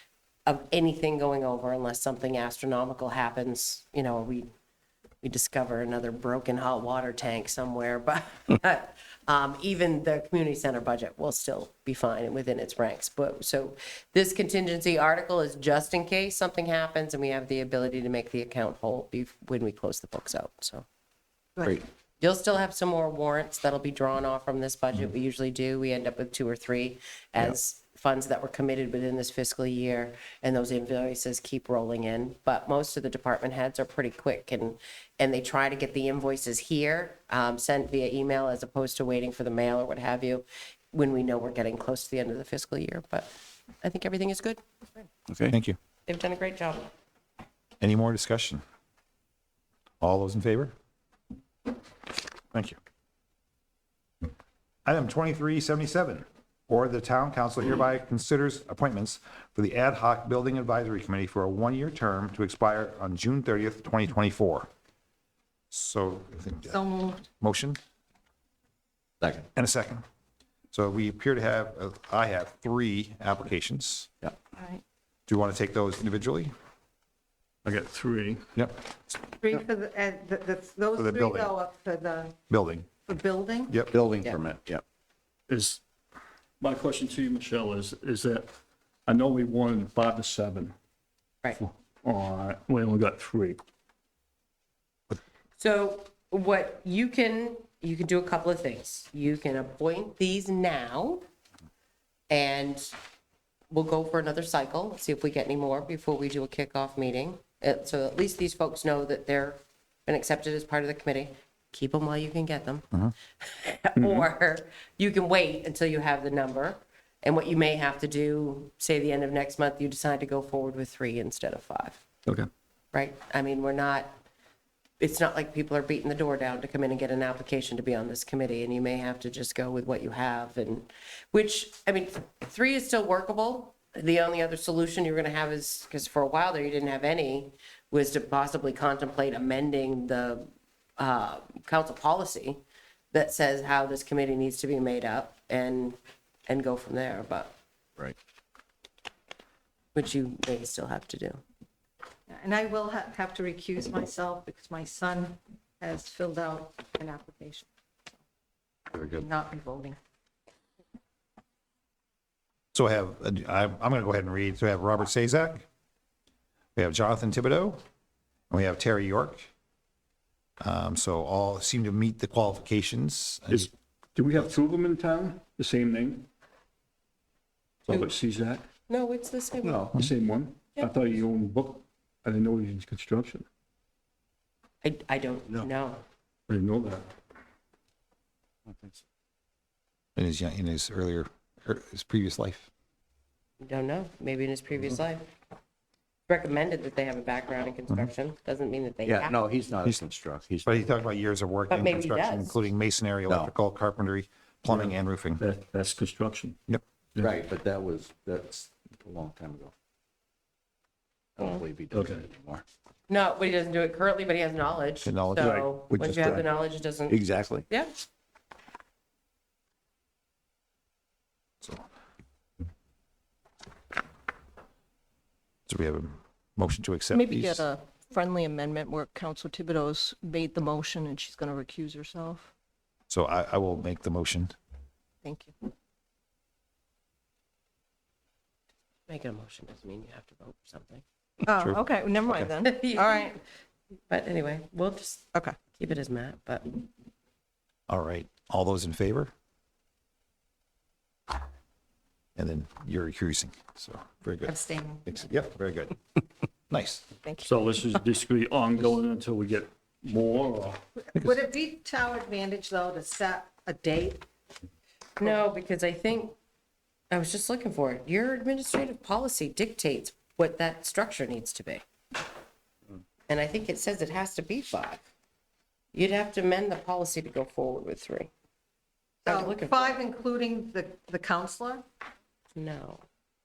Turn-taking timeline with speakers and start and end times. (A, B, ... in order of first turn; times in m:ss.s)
0:00.4-0:04.5 A
0:05.2-0:20.8 A
0:22.2-0:43.3 A
0:43.8-0:44.6 A
0:45.5-0:45.8 B
0:46.1-0:46.9 A
0:47.8-0:48.6 B
0:50.0-0:50.7 B
0:54.8-1:04.7 B
1:05.7-1:06.8 B
1:06.7-1:07.3 C
1:07.3-1:07.8 B
1:09.2-1:09.4 D
1:09.5-1:10.0 B
1:10.7-1:14.1 B
1:15.3-1:16.5 B
1:17.6-1:18.5 E
1:18.5-1:19.2 B
1:19.4-1:22.4 C
1:20.9-1:21.5 B
1:22.5-1:22.9 B
1:23.0-1:23.8 C
1:23.9-1:24.8 D
1:25.5-1:25.8 E
1:26.6-1:28.5 E
1:29.1-1:30.7 E
1:31.6-1:33.6 E
1:35.6-1:41.2 A
1:42.3-1:42.9 A
1:43.7-1:52.9 A
1:53.4-2:02.0 A
1:54.0-1:54.2 E
2:02.9-2:04.1 A
2:05.0-2:22.6 A
2:23.1-2:27.5 A
2:29.9-2:31.4 A
2:32.3-2:37.7 C
2:38.9-2:40.0 C
2:39.0-2:39.2 D
2:42.7-2:45.6 B
2:46.8-2:47.8 B
2:48.5-2:49.5 B
2:50.6-2:53.7 B
2:53.5-2:56.2 E
2:57.9-2:58.6 E
2:58.9-2:59.9 A
2:59.6-3:00.1 D
2:59.9-3:03.4 E
3:04.8-3:06.0 A
3:06.5-3:07.1 E
3:08.6-3:09.0 D
3:10.2-3:12.7 B
3:13.6-3:15.2 A
3:16.3-3:19.4 A
3:19.0-3:20.8 D
3:20.6-3:25.4 B
3:21.7-3:22.7 A
3:24.7-3:26.6 E
3:27.2-3:29.7 D
3:31.4-3:32.6 D
3:31.9-3:32.3 E
3:33.1-3:37.9 A
3:35.0-3:35.6 B
3:35.4-3:35.7 E
3:35.9-3:36.4 D
3:37.1-3:37.6 D
3:45.7-3:47.7 B
3:47.1-3:52.5 F
3:53.1-3:54.5 B
3:55.2-3:55.5 F
3:59.1-4:01.0 A
4:01.5-4:03.3 F
4:01.5-4:01.8 B
4:02.4-4:03.4 A
4:04.1-4:06.8 A
4:07.9-4:09.3 B
4:12.4-4:16.0 B
4:14.4-4:15.1 C
4:16.7-4:17.0 B
4:17.4-4:20.8 E
4:21.0-4:24.2 C
4:21.1-4:21.4 B
4:25.2-4:26.3 A
4:27.1-4:31.8 A
4:33.3-4:35.1 A
4:35.9-4:38.3 A
4:39.2-4:40.0 A
4:39.2-4:41.8 C
4:42.6-4:43.0 A